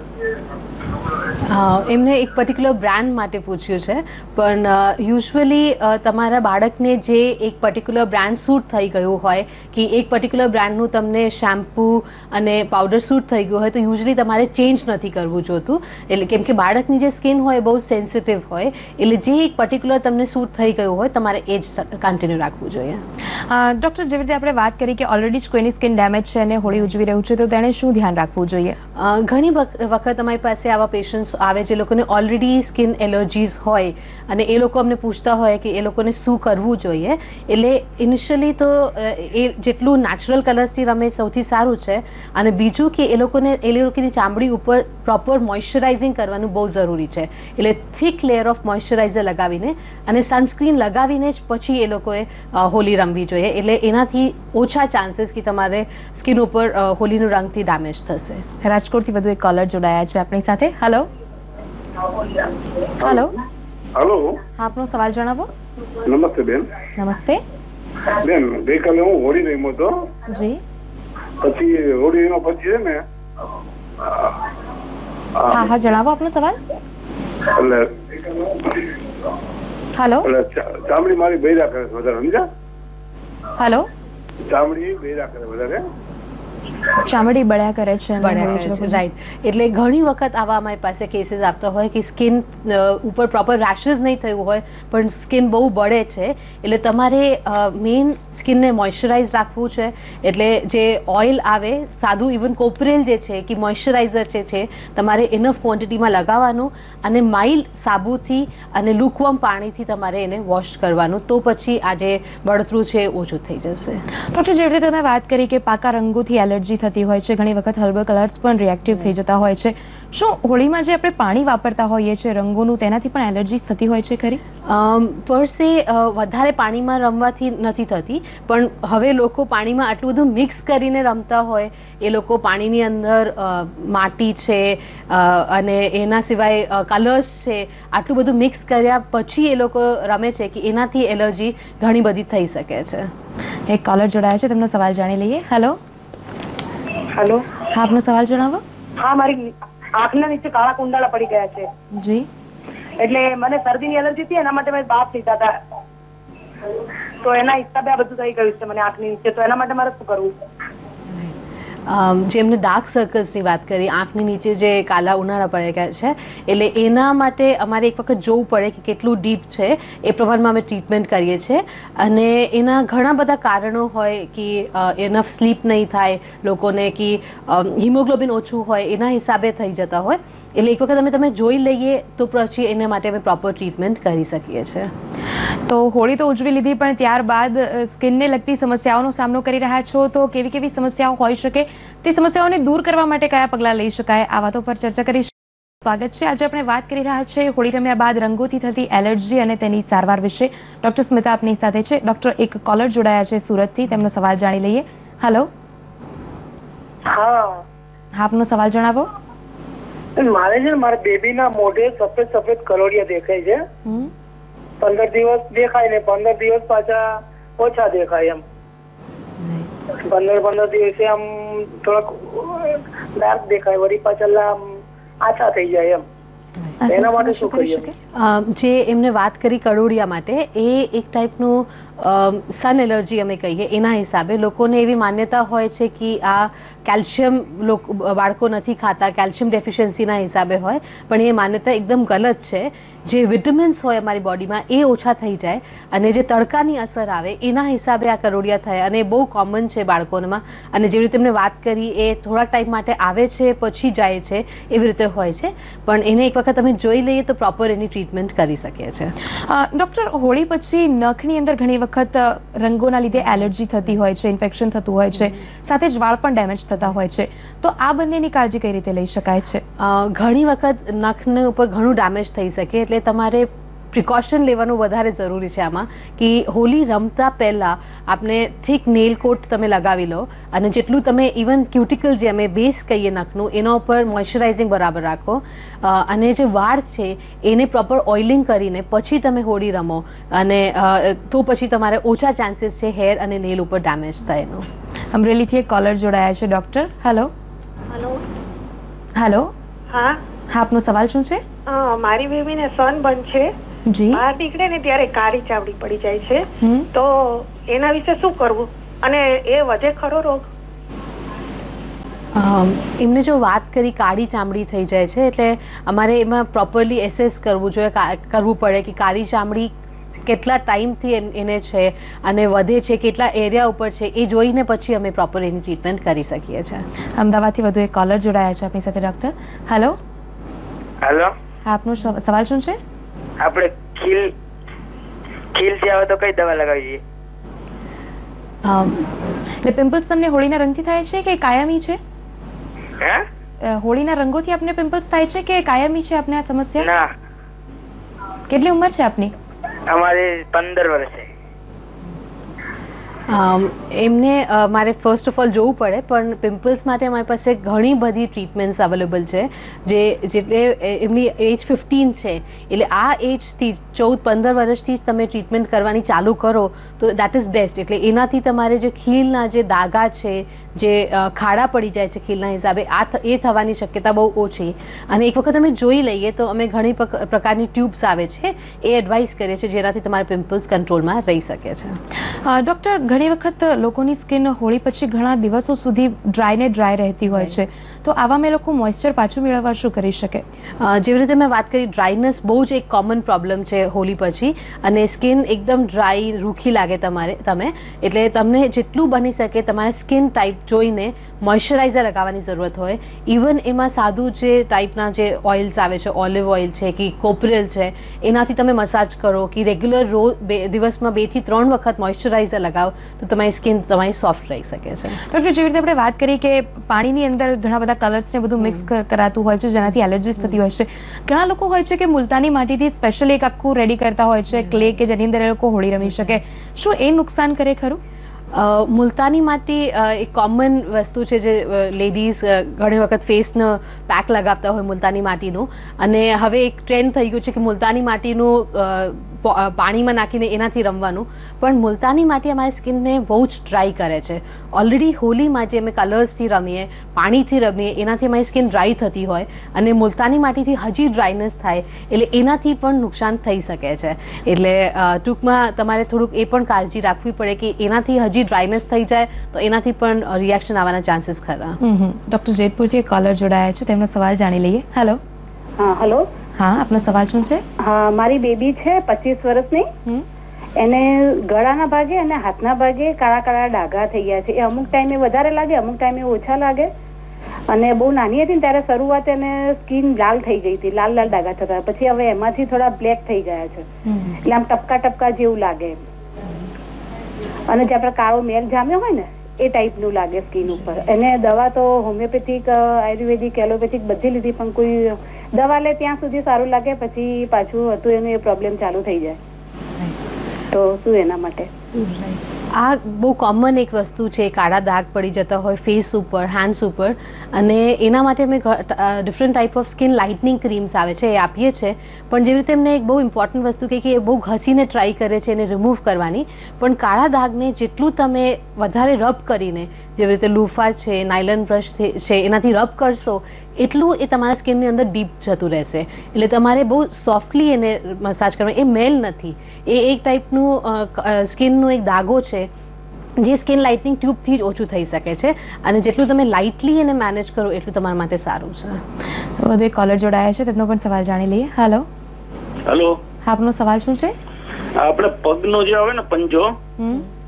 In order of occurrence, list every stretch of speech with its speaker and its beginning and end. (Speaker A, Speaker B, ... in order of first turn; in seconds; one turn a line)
Speaker A: 1.4-23.0
Speaker B: 23.4-28.8
Speaker A: 29.0-58.5
Speaker B: 58.6-61.1
Speaker B: 63.0-63.3
Speaker C: 64.0-64.4
Speaker B: 64.6-65.5
Speaker C: 66.1-66.7
Speaker B: 67.0-67.4
Speaker C: 68.2-70.1
Speaker B: 70.3-70.6
Speaker C: 71.4-73.0
Speaker C: 74.0-74.3
Speaker B: 75.5-76.6
Speaker C: 77.5-78.9
Speaker B: 80.0-80.3
Speaker C: 80.2-82.5
Speaker B: 83.6-83.9
Speaker C: 84.5-85.8
Speaker B: 87.0-89.0
Speaker A: 88.2-114.0
Speaker B: 114.2-124.4
Speaker A: 124.7-143.1
Speaker B: 143.7-145.8
Speaker D: 147.2-147.4
Speaker B: 147.7-148.6
Speaker D: 149.0-151.7
Speaker B: 151.9-152.3
Speaker D: 153.0-155.6
Speaker D: 157.2-160.3
Speaker A: 161.1-161.3
Speaker A: 161.9-184.9
Speaker B: 185.7-205.5
Speaker E: 207.1-207.6
Speaker B: 208.1-209.1
Speaker E: 210.2-213.6
Speaker B: 213.9-214.1
Speaker E: 214.8-217.0
Speaker E: 217.6-218.4
Speaker A: 219.4-219.7
Speaker E: 220.0-224.7
Speaker E: 225.2-226.0
Speaker B: 226.8-227.9
Speaker E: 226.9-227.9
Speaker A: 228.1-259.1
Speaker B: 259.2-269.6
Speaker A: 263.2-263.4
Speaker A: 269.8-294.7
Speaker B: 295.1-297.3
Speaker F: 297.9-298.2
Speaker B: 299.2-299.5
Speaker F: 299.9-300.2
Speaker B: 300.5-301.4
Speaker F: 301.7-303.5
Speaker B: 303.9-304.2
Speaker F: 304.1-310.5
Speaker B: 306.6-306.9
Speaker A: 312.4-319.7
Speaker A: 320.3-326.9
Speaker B: 327.2-330.0
Speaker G: 331.0-331.3
Speaker B: 331.6-332.8
Speaker G: 333.4-334.3
Speaker G: 335.6-337.0
Speaker A: 338.6-339.1
Speaker B: 339.6-342.0
Speaker B: 343.6-346.9
Speaker G: 346.8-347.1
Speaker B: 348.5-349.3
Speaker G: 349.9-351.3
Speaker A: 353.3-382.0
Speaker B: 382.2-390.4
Speaker A: 390.8-415.2
Speaker B: 415.2-428.0
Speaker A: 428.5-461.8
Speaker B: 461.8-465.2
Speaker H: 465.8-466.3
Speaker B: 466.6-467.6
Speaker H: 467.8-469.9
Speaker H: 470.8-476.9
Speaker H: 477.7-483.9
Speaker B: 484.1-484.3
Speaker H: 484.4-486.0
Speaker H: 487.7-499.4
Speaker H: 500.7-501.7
Speaker A: 501.9-532.7
Speaker A: 533.4-539.0
Speaker B: 539.6-542.1
Speaker I: 542.9-543.2
Speaker B: 543.5-544.4
Speaker I: 545.0-546.7
Speaker B: 547.0-547.2